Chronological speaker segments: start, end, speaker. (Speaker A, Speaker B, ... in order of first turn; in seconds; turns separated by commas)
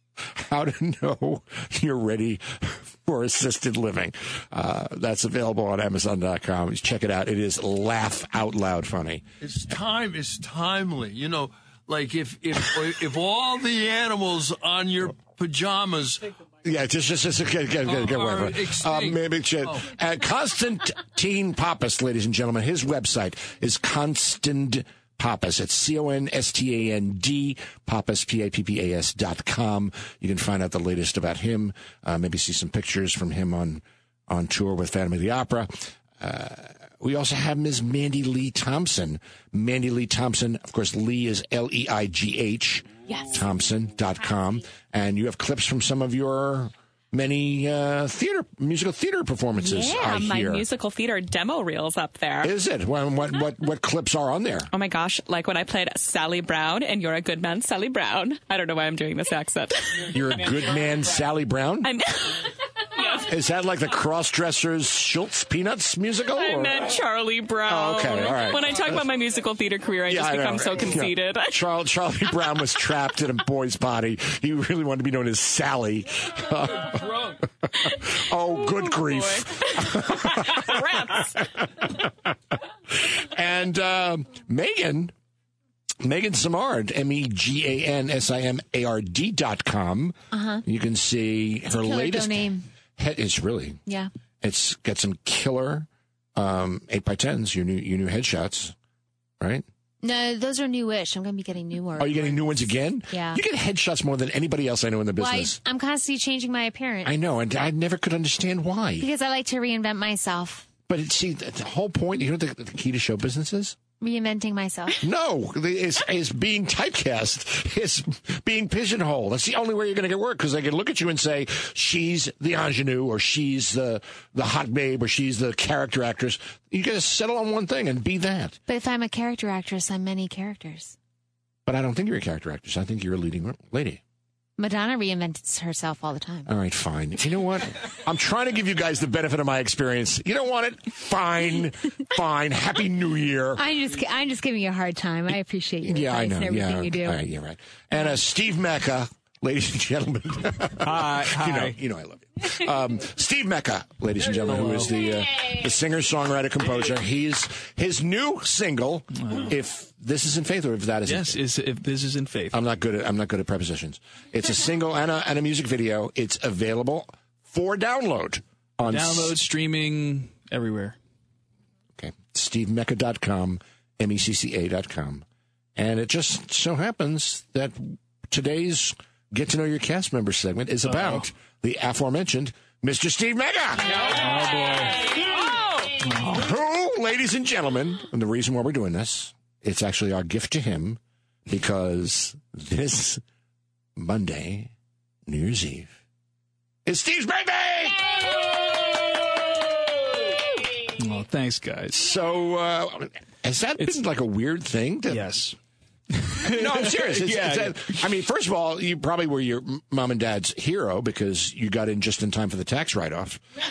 Speaker A: 0.2-9.2, Speaker B: 9.4-16.3, Speaker A: 16.6-50.6, Speaker B: 17.8-19.9, Speaker C: 49.6-52.5, Speaker A: 52.4-54.7, Speaker C: 54.7-60.2, Speaker A: 60.1-61.9, Speaker C: 61.8-63.3, Speaker A: 63.2-66.9, Speaker C: 66.3-71.6, Speaker A: 67.7-69.0, Speaker A: 70.1-80.8, Speaker C: 78.5-81.4, Speaker A: 81.6-82.1, Speaker A: 82.9-85.1, Speaker A: 86.0-93.8, Speaker D: 90.3-90.6, Speaker D: 91.7-92.7, Speaker A: 94.4-98.8, Speaker A: 99.4-99.7, Speaker D: 100.0-103.4, Speaker A: 102.0-105.6, Speaker D: 105.2-107.1, Speaker A: 107.0-109.1, Speaker D: 109.0-110.7, Speaker A: 110.9-113.8, Speaker D: 114.0-115.0, Speaker A: 115.0-128.6, Speaker D: 128.7-130.9, Speaker A: 131.7-134.0, Speaker D: 134.6-136.5, Speaker A: 136.5-143.6, Speaker D: 143.6-147.2, Speaker A: 145.8-161.4, Speaker E: 150.8-151.8, Speaker E: 154.4-154.9, Speaker E: 159.2-159.5, Speaker E: 161.1-162.6, Speaker A: 162.5-169.4, Speaker E: 168.8-171.0, Speaker A: 172.0-175.2, Speaker A: 175.8-184.1, Speaker E: 180.9-181.2, Speaker E: 184.0-185.1, Speaker E: 186.1-186.4, Speaker A: 186.1-193.2, Speaker A: 194.0-194.7, Speaker A: 195.3-195.9, Speaker A: 196.8-198.4, Speaker E: 201.0-202.0, Speaker A: 201.9-205.3, Speaker E: 205.1-205.6, Speaker E: 206.1-208.0, Speaker A: 206.4-213.4